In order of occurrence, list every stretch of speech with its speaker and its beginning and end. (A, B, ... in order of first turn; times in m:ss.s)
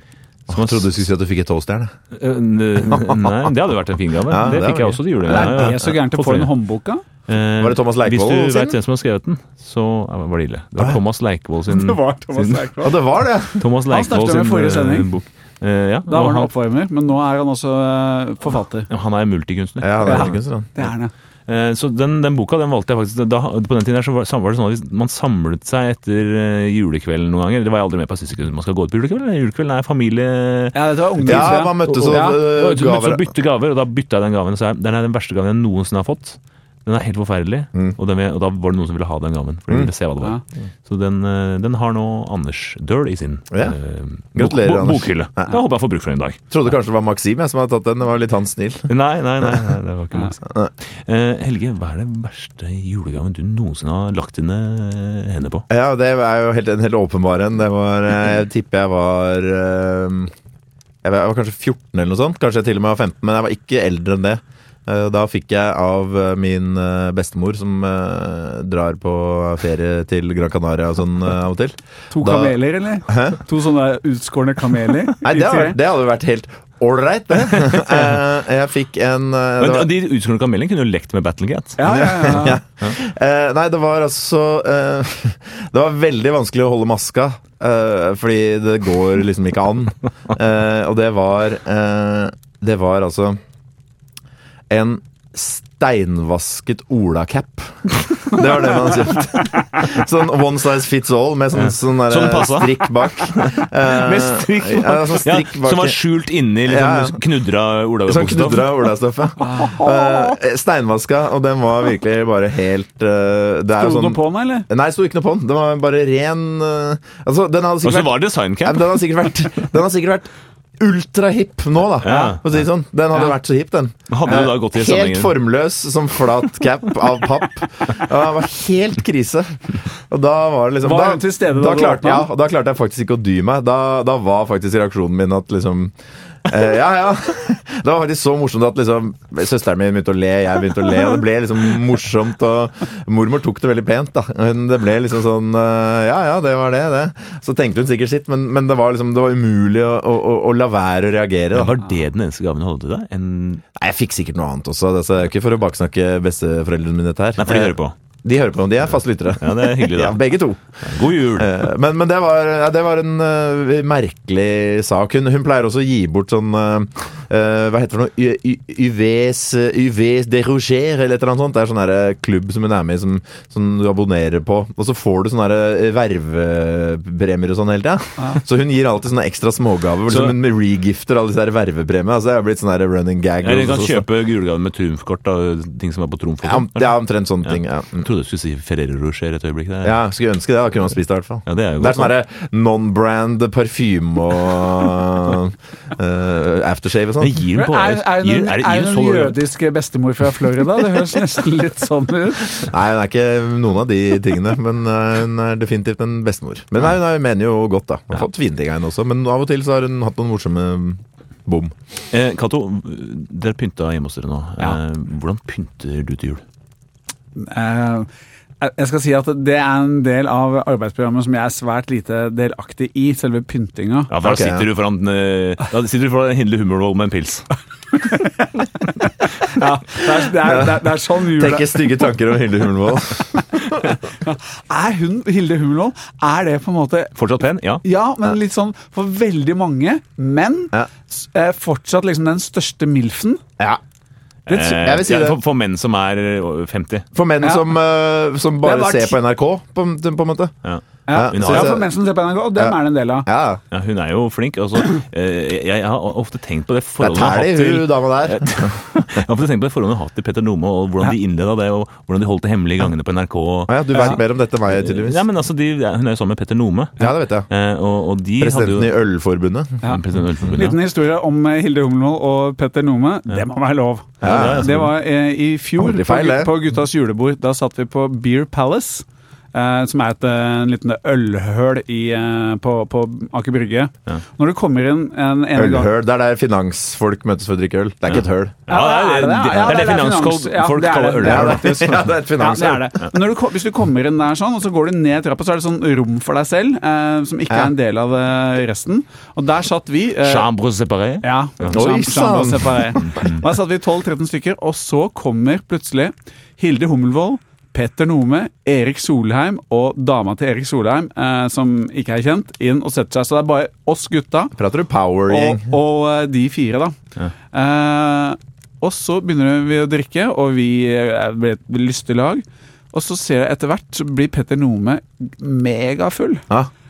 0:00.5-0:01.9 A
0:00.5-0:00.9 B
0:02.1-0:06.5 B
0:03.0-0:03.3 A
0:04.3-0:05.8 A
0:05.3-0:07.0 C
0:07.3-0:12.7 B
0:07.6-0:08.8 A
0:11.7-0:13.0 C
0:12.8-0:13.6 A
0:13.6-0:16.5 B
0:13.9-0:15.1 C
0:16.1-0:18.9 C
0:18.9-0:20.4 B
0:19.8-0:20.7 A
0:20.0-0:21.1 C
0:21.5-0:46.5 B
0:30.7-0:32.4 C
0:31.2-0:33.3 A
0:43.5-0:43.8 A
0:44.4-0:45.6 A
0:46.5-0:48.9 A
0:48.9-0:50.5 B
0:51.0-0:55.6 B
0:55.7-1:00.3 A
1:01.0-1:12.6 A
1:12.1-1:15.8 C
1:13.1-1:13.4 A
1:15.2-1:19.9 A
1:19.6-1:21.9 B
1:21.8-1:22.6 C
1:21.9-1:33.4 A
1:34.7-1:46.0 A
1:41.5-1:48.9 B
1:46.6-1:47.2 A
1:48.0-2:15.9 A
1:49.4-1:50.4 C
1:53.8-1:54.6 C
1:57.8-1:59.0 B
2:02.0-2:02.4 B
2:04.1-2:05.4 B
2:10.8-2:12.3 C
2:16.4-2:31.8 A
2:31.5-2:33.6 B
2:33.8-3:04.0 A
2:37.4-2:37.9 B
2:39.4-2:40.3 B
2:40.8-2:41.7 B
3:00.1-3:00.4 B
3:03.4-3:10.0 B
3:06.4-3:08.1 A
3:09.8-3:17.4 A
3:11.4-3:12.1 B
3:17.2-3:19.4 B
3:17.5-3:22.7 C
3:22.7-3:31.7 A
3:32.1-3:36.4 B
3:37.4-3:38.1 C
3:38.6-3:44.1 C
3:44.1-3:47.4 B
3:44.2-3:44.7 A
3:48.0-3:51.9 C
3:51.3-3:53.8 A
3:54.2-3:57.1 C
3:57.2-3:57.8 B
3:57.8-4:03.4 C
4:04.5-4:07.1 B
4:04.5-4:04.8 C
4:04.6-4:05.4 A
4:07.1-4:10.5 A
4:07.4-4:07.7 C
4:08.6-4:09.2 C
4:10.6-4:11.8 B
4:11.1-4:13.3 C
4:11.1-4:11.9 A
4:12.5-4:13.6 A
4:13.7-4:28.9 B
4:17.0-4:18.8 A
4:23.7-4:25.2 A
4:23.9-4:24.2 C
4:27.0-4:27.5 A
4:28.4-4:29.8 A
4:29.8-4:45.9 C
4:29.8-4:30.8 B
4:34.2-4:34.7 A
4:34.2-4:34.9 B
4:35.8-4:36.5 A
4:45.5-4:48.6 A
4:48.1-4:52.0 B
4:48.7-5:00.5 C
4:51.2-4:52.9 A
5:00.2-5:01.8 B
5:01.2-5:14.5 C
5:01.7-5:03.0 A
5:03.0-5:03.4 B
5:14.5-5:15.7 A
5:15.3-5:17.0 C
5:17.5-5:26.5 C